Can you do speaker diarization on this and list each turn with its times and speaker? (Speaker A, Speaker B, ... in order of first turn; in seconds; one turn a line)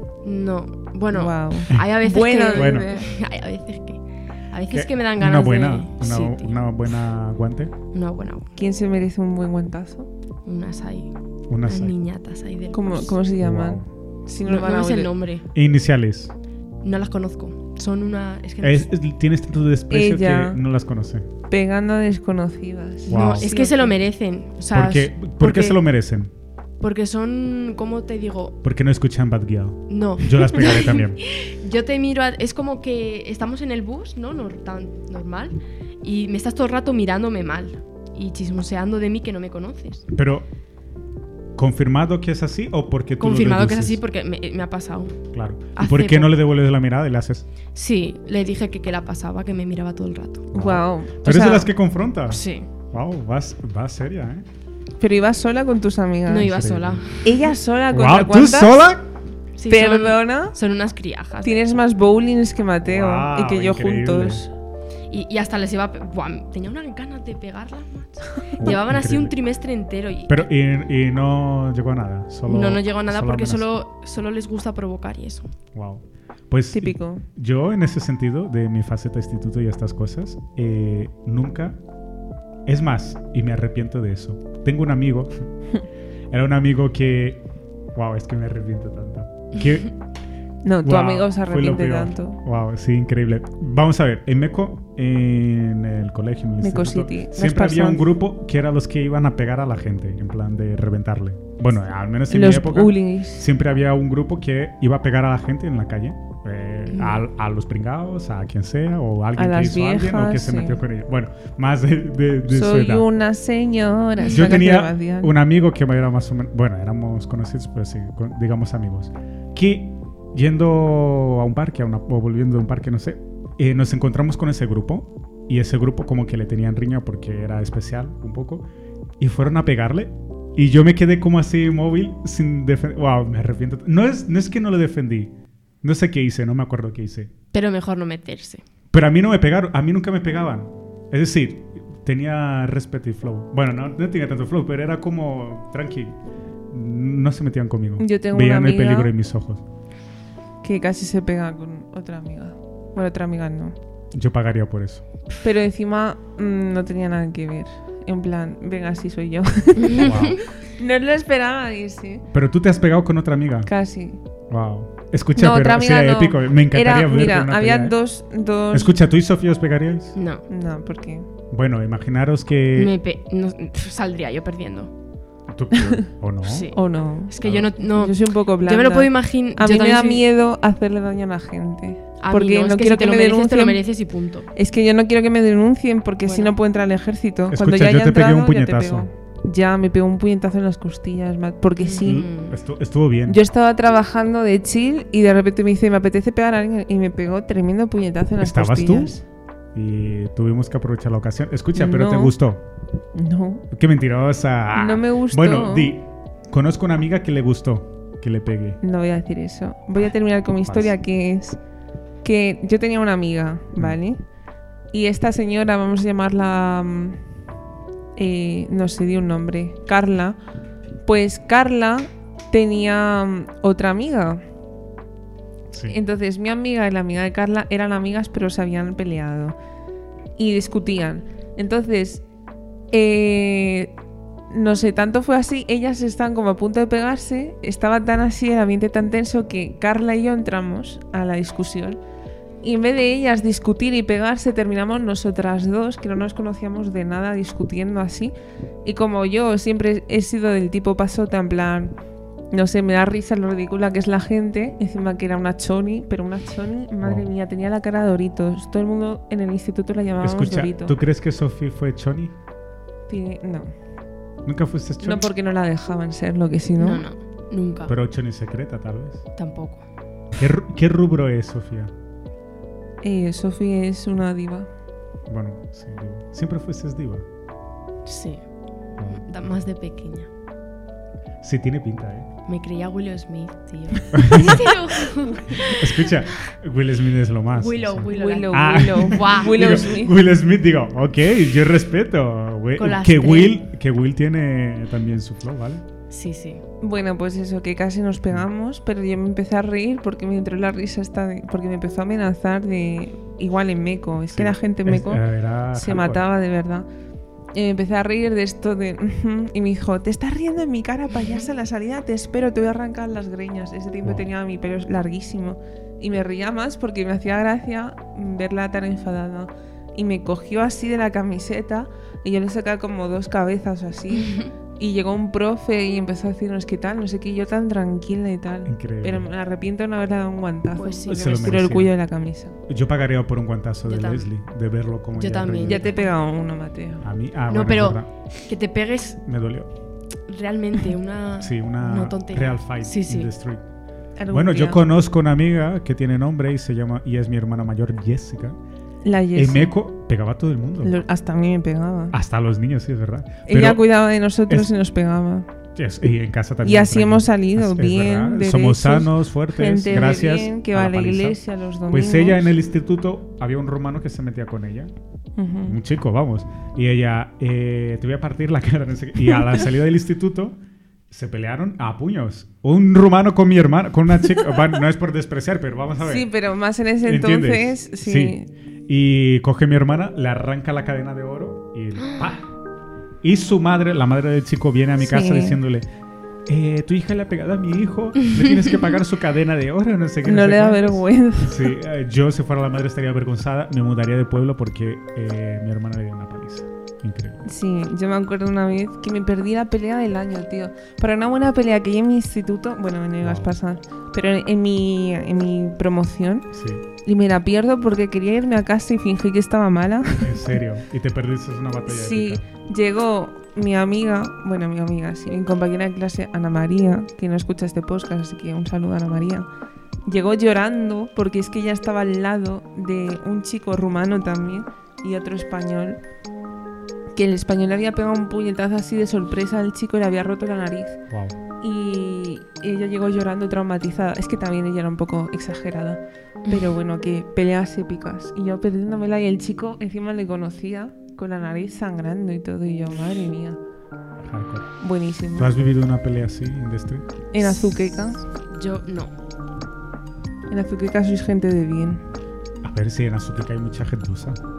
Speaker A: 0.2-6.7
Speaker B: 1.1-3.1
Speaker C: 2.5-2.9
Speaker C: 4.7-7.7
Speaker A: 7.9-8.5
Speaker B: 8.6-10.1
Speaker A: 10.5-13.2
Speaker C: 11.5-11.9
Speaker B: 12.7-15.1
Speaker C: 13.4-13.9
Speaker A: 14.4-15.4
Speaker C: 15.5-16.4
Speaker A: 16.8-18.9
Speaker C: 18.6-21.3
Speaker B: 19.9-20.6
Speaker B: 21.5-24.0
Speaker A: 23.1-25.8
Speaker C: 23.1-23.5
Speaker C: 24.7-26.3
Speaker A: 26.8-28.6
Speaker C: 28.6-31.2
Speaker A: 29.9-40.1
Speaker C: 40.1-40.5
Speaker C: 41.6-44.0
Speaker A: 43.2-45.2
Speaker C: 45.3-47.5
Speaker A: 45.8-46.4
Speaker A: 47.7-50.5
Speaker C: 50.5-54.5
Speaker B: 50.5-51.7
Speaker A: 52.3-52.7
Speaker B: 55.0-56.5
Speaker A: 56.3-57.2
Speaker C: 56.4-57.0
Speaker B: 57.2-58.9
Speaker C: 57.9-59.1
Speaker A: 59.6-61.8
Speaker B: 59.7-60.5
Speaker B: 61.4-64.5
Speaker C: 62.9-64.5
Speaker A: 65.1-70.5
Speaker C: 68.6-69.3
Speaker C: 70.3-73.7
Speaker A: 72.5-75.5
Speaker C: 75.7-81.8
Speaker B: 76.7-77.2
Speaker C: 82.7-85.3
Speaker C: 86.3-87.4
Speaker C: 88.0-90.0
Speaker B: 90.6-92.4
Speaker C: 90.8-113.1
Speaker B: 96.6-98.1
Speaker B: 102.3-103.5
Speaker A: 106.9-107.2
Speaker B: 109.4-110.8
Speaker B: 112.5-115.3
Speaker C: 114.3-128.7
Speaker C: 129.2-137.3
Speaker A: 137.5-138.6
Speaker C: 138.9-146.2
Speaker C: 146.7-149.6
Speaker B: 148.0-149.1
Speaker B: 150.6-153.8
Speaker C: 154.1-155.1
Speaker B: 155.4-162.3
Speaker A: 159.8-160.4
Speaker C: 160.0-160.4
Speaker C: 162.3-163.7
Speaker B: 163.7-164.2
Speaker C: 164.5-168.0
Speaker B: 165.4-168.9
Speaker C: 168.7-170.2
Speaker A: 170.2-170.4
Speaker B: 170.5-171.3
Speaker C: 171.5-172.9
Speaker A: 172.8-174.9
Speaker C: 175.5-176.7
Speaker B: 175.7-176.1
Speaker A: 176.4-180.2
Speaker B: 176.7-183.8
Speaker C: 177.4-177.7
Speaker A: 182.2-184.5
Speaker B: 184.6-192.3
Speaker A: 186.2-186.5
Speaker C: 187.5-189.1
Speaker A: 191.8-192.6
Speaker C: 192.0-193.4
Speaker B: 193.3-199.2
Speaker C: 198.4-199.2
Speaker C: 199.7-202.6
Speaker B: 201.8-202.4
Speaker B: 203.2-203.7
Speaker C: 203.7-208.8
Speaker B: 204.7-205.9
Speaker B: 208.8-211.6
Speaker C: 210.6-211.0
Speaker B: 212.2-214.2
Speaker B: 214.9-217.2
Speaker B: 218.2-220.4
Speaker B: 221.1-224.4
Speaker C: 225.7-226.0
Speaker B: 225.9-229.6
Speaker B: 230.4-232.2
Speaker B: 232.9-233.9
Speaker B: 234.5-242.0
Speaker B: 242.6-248.3
Speaker B: 248.8-251.9
Speaker B: 252.5-260.9
Speaker C: 257.0-257.3
Speaker C: 260.2-262.4
Speaker B: 263.1-263.7
Speaker C: 264.4-265.3
Speaker B: 265.0-267.1
Speaker A: 266.8-267.9
Speaker C: 267.9-269.2
Speaker A: 269.4-269.8
Speaker C: 270.4-271.9
Speaker B: 273.0-274.7
Speaker C: 275.3-277.3
Speaker A: 278.1-278.4
Speaker C: 279.0-279.5
Speaker A: 279.1-280.3
Speaker C: 281.4-282.3
Speaker A: 282.5-286.5
Speaker C: 284.1-284.7
Speaker C: 285.6-295.8
Speaker A: 287.5-289.8
Speaker B: 288.1-290.2
Speaker A: 292.8-293.6
Speaker A: 296.1-296.6
Speaker B: 296.8-306.9
Speaker C: 304.3-306.3
Speaker B: 307.5-332.6
Speaker C: 314.0-314.3
Speaker A: 324.1-324.5
Speaker C: 328.7-329.3
Speaker A: 330.8-331.6
Speaker C: 331.1-331.9
Speaker C: 332.7-335.9
Speaker A: 333.9-334.3
Speaker A: 335.2-336.1
Speaker B: 335.7-337.0
Speaker C: 337.0-338.1
Speaker A: 337.5-339.2
Speaker C: 339.3-339.7
Speaker A: 340.3-343.3
Speaker C: 341.4-343.6
Speaker B: 344.2-344.8
Speaker C: 344.3-348.6
Speaker B: 349.0-349.7
Speaker C: 349.4-351.0
Speaker B: 350.8-352.1
Speaker C: 352.1-353.9
Speaker B: 353.5-355.5
Speaker C: 355.8-361.4
Speaker B: 356.6-362.5
Speaker C: 361.9-364.9
Speaker B: 365.4-365.8
Speaker C: 365.7-370.6
Speaker C: 371.1-376.3
Speaker B: 376.0-378.5
Speaker C: 377.0-378.4
Speaker C: 378.9-382.5
Speaker A: 382.0-382.3
Speaker C: 383.2-385.9
Speaker B: 385.0-385.6
Speaker C: 386.5-397.4
Speaker B: 390.2-391.7
Speaker B: 397.4-406.5
Speaker C: 403.2-403.5
Speaker C: 406.5-406.9
Speaker B: 407.1-410.4
Speaker C: 410.2-412.4
Speaker B: 411.9-419.5
Speaker B: 420.1-426.0
Speaker B: 427.2-431.0
Speaker C: 431.1-431.4
Speaker B: 431.6-443.6
Speaker C: 444.2-444.7
Speaker B: 444.8-445.6
Speaker C: 445.4-447.1
Speaker B: 447.3-448.2
Speaker A: 448.5-449.1
Speaker B: 450.5-452.0
Speaker C: 452.6-454.4